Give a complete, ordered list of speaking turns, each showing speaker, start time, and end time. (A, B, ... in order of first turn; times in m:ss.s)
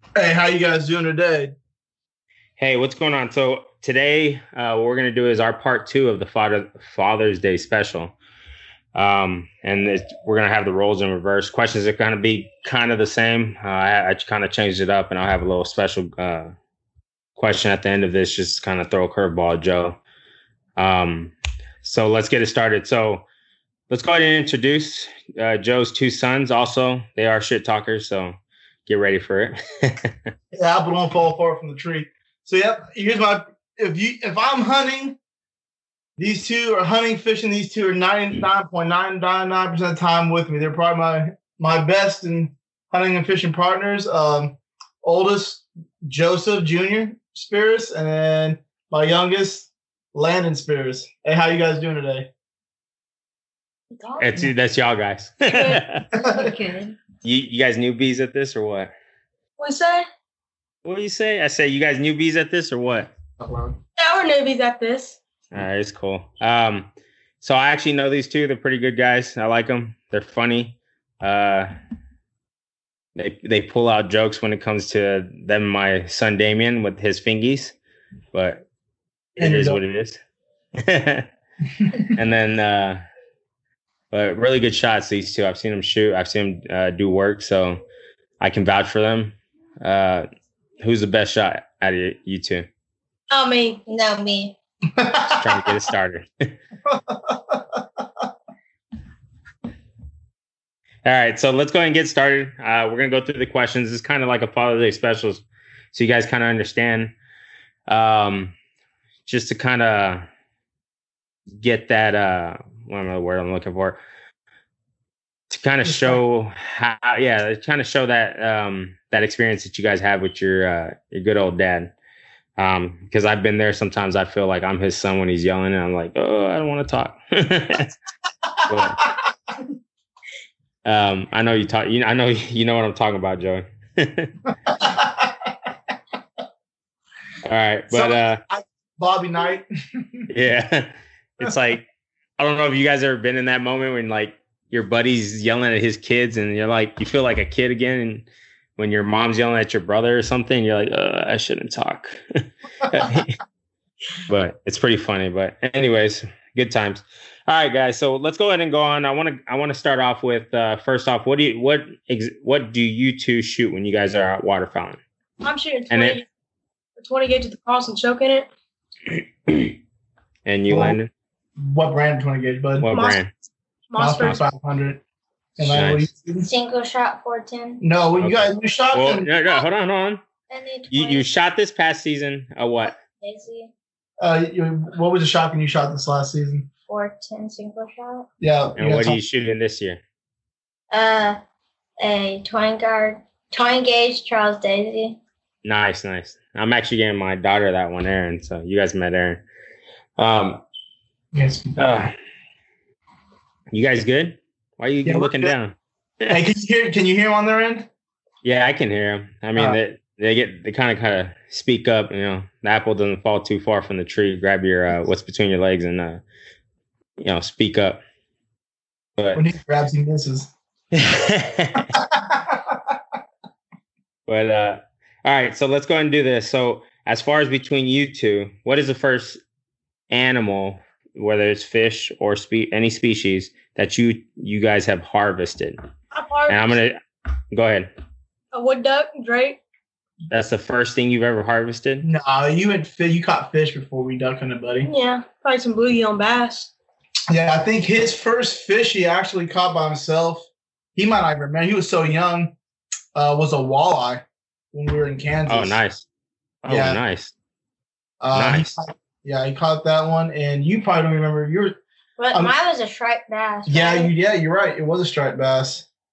0:00.2-0:01.6 A
0:02.6-0:08.1 B
0:08.9-0:16.5 B
0:17.4-0:20.0 B
0:20.8-0:23.2 B
0:23.9-0:30.3 B
0:30.5-0:35.2 A
0:36.2-0:52.3 A
0:53.9-0:54.2 C
0:54.2-0:56.0 B
0:55.5-0:55.8 C
0:56.1-0:57.0 D
0:56.2-0:56.5 A
0:57.2-0:58.9 B
0:59.6-1:00.0 C
1:00.8-1:03.1 B
1:03.4-1:03.8 A
1:04.0-1:05.2 C
1:05.5-1:06.9 B
1:07.4-1:11.7 B
1:13.2-1:17.8 B
1:18.3-1:18.6 B
1:19.4-1:19.8 A
1:19.4-1:20.2 B
1:20.8-1:21.3 B
1:21.8-1:22.1 A
1:22.1-1:23.0 B
1:24.1-1:27.8 B
1:28.4-1:30.2 B
1:30.8-1:32.7 B
1:33.3-1:33.8 C
1:33.8-1:34.6 D
1:34.9-1:35.7 A
1:35.3-1:36.5 B
1:36.8-1:38.0 A
1:41.0-1:47.1 B
1:47.9-1:48.5 B
1:49.2-1:50.3 B
1:51.6-1:54.0 B
1:55.5-2:01.9 B
1:55.8-1:56.2 A
2:02.6-2:07.9 B
2:08.7-2:09.0 B
2:09.0-2:09.3 A
2:10.8-2:14.4 B
2:14.7-2:15.5 A
2:17.5-2:18.4 B
2:17.9-2:20.3 A
2:20.3-2:21.8 B
2:22.4-2:33.4 B
2:34.3-2:45.0 B
2:45.4-2:46.2 C
2:45.9-2:46.2 B
2:47.0-2:48.5 C
2:49.1-2:49.8 B
2:50.4-2:51.1 B
2:50.7-2:51.0 A
2:51.6-2:52.9 A
2:52.8-2:53.3 B
2:52.9-2:53.2 C
2:53.9-2:54.4 C
2:54.0-2:55.0 A
2:55.6-2:56.5 A
2:55.6-2:56.1 B
2:56.4-2:57.8 D
2:57.8-2:59.3 A
2:58.2-3:00.2 B
3:00.5-3:01.2 D
3:00.9-3:03.0 B
3:03.1-3:03.7 D
3:04.2-3:06.7 A
3:06.9-3:08.3 D
3:08.4-3:09.2 A
3:08.8-3:10.0 B
3:10.9-3:11.4 D
3:12.0-3:15.2 D
3:15.6-3:19.4 B
3:20.2-3:20.6 B
3:21.3-3:21.7 A
3:21.8-3:22.1 B
3:23.7-3:26.4 B
3:25.0-3:25.5 A
3:26.3-3:27.9 A
3:28.4-3:36.2 B
3:37.2-3:38.0 B
3:39.2-3:39.5 B
3:39.3-3:40.5 A
3:40.9-3:42.0 B
3:41.9-3:42.9 A
3:44.3-3:49.4 B
3:50.1-3:55.8 B
3:56.1-3:56.8 C
3:56.5-3:57.9 B
3:58.5-3:59.6 C
4:00.3-4:02.1 B
4:02.0-4:04.9 A
4:04.8-4:06.7 C
4:07.3-4:12.5 A
4:13.1-4:15.8 A
4:15.5-4:16.0 B
4:16.6-4:17.3 B
4:16.7-4:17.0 A
4:18.2-4:21.8 A
4:18.3-4:18.8 B
4:22.2-4:24.1 D
4:23.6-4:25.9 A